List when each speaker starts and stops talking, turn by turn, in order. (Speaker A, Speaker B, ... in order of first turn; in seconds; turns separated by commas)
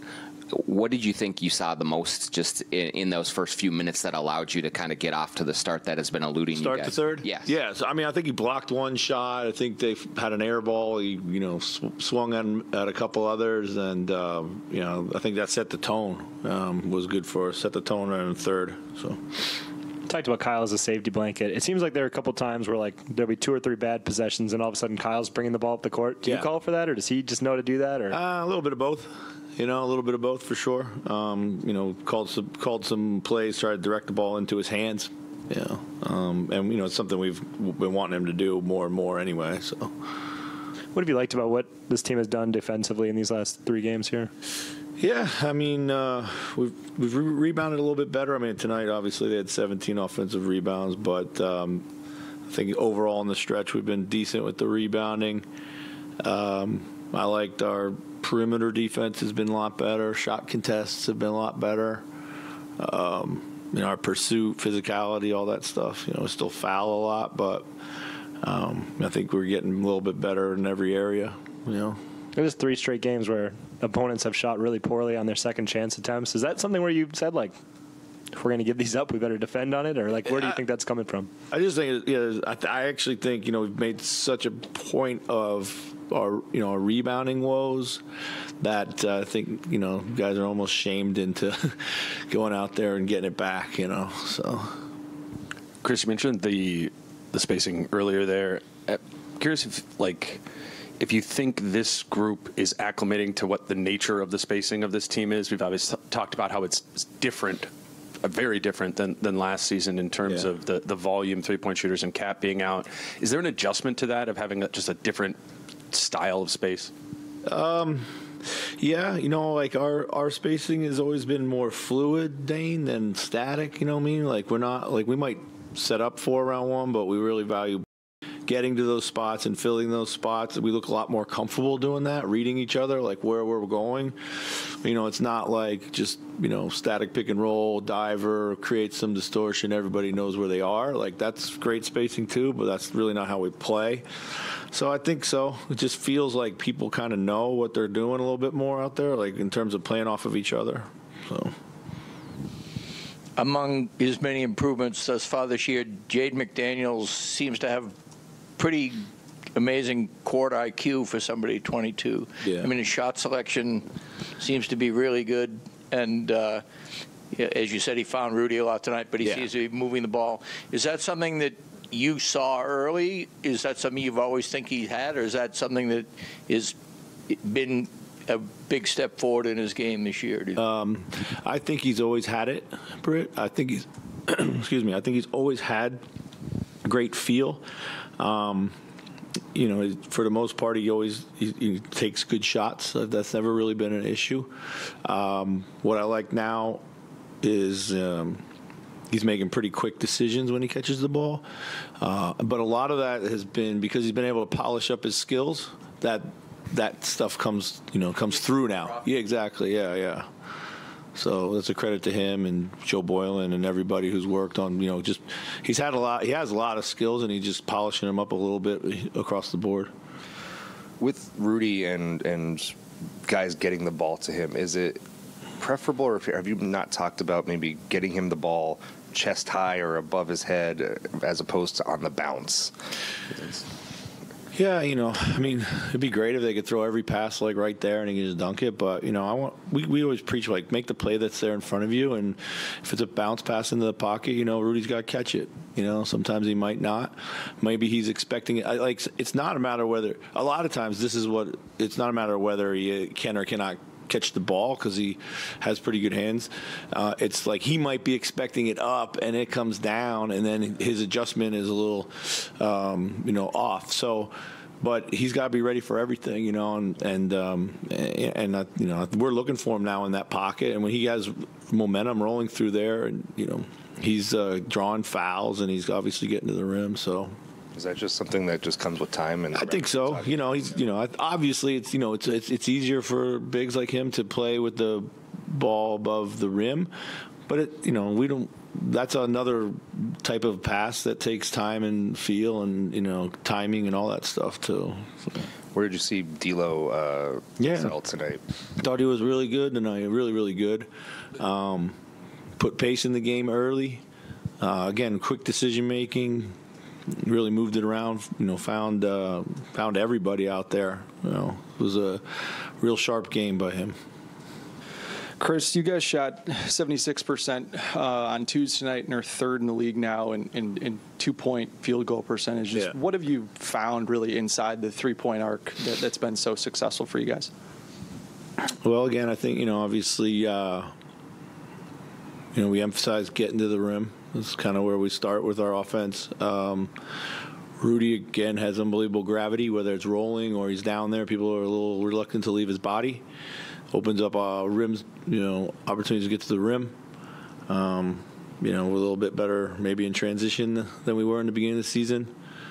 Speaker A: 0.5-7.5, Speaker B: 6.5-19.2, Speaker C: 20.1-28.2, Speaker B: 28.1-39.9, Speaker C: 40.9-44.3, Speaker B: 45.0-51.9, Speaker B: 52.5-55.5, Speaker B: 56.2-62.0, Speaker B: 62.8-67.7, Speaker B: 68.4-72.0, Speaker C: 72.3-77.6, Speaker C: 78.3-81.3, Speaker B: 81.5-88.0, Speaker B: 88.6-94.8, Speaker D: 95.8-100.4, Speaker D: 101.0-107.7, Speaker D: 108.2-115.4, Speaker D: 115.9-116.9, Speaker B: 117.5-118.1, Speaker B: 118.8-127.8, Speaker B: 128.5-151.5, Speaker E: 153.4-158.0, Speaker E: 158.6-166.7, Speaker B: 162.4-162.7, Speaker E: 167.3-176.8, Speaker B: 169.2-169.5, Speaker E: 177.3-180.6, Speaker B: 180.6-186.0, Speaker B: 186.8-187.6, Speaker B: 188.2-188.7, Speaker B: 189.6-194.5, Speaker B: 195.0-196.8, Speaker B: 197.4-198.4, Speaker B: 199.1-201.4, Speaker B: 202.0-210.3, Speaker B: 211.2-219.9, Speaker F: 221.0-222.7, Speaker F: 223.3-225.0, Speaker F: 225.6-232.7, Speaker B: 234.5-277.3, Speaker F: 277.8-280.4, Speaker B: 279.5-286.9, Speaker B: 287.5-295.5, Speaker F: 295.7-298.4, Speaker B: 297.6-297.9, Speaker B: 298.8-301.9, Speaker B: 302.6-304.0, Speaker B: 304.6-306.5, Speaker B: 307.2-313.9, Speaker G: 315.4-327.5, Speaker B: 328.8-330.9, Speaker B: 332.6-336.9, Speaker B: 337.8-343.2, Speaker B: 343.9-346.9, Speaker B: 347.7-352.3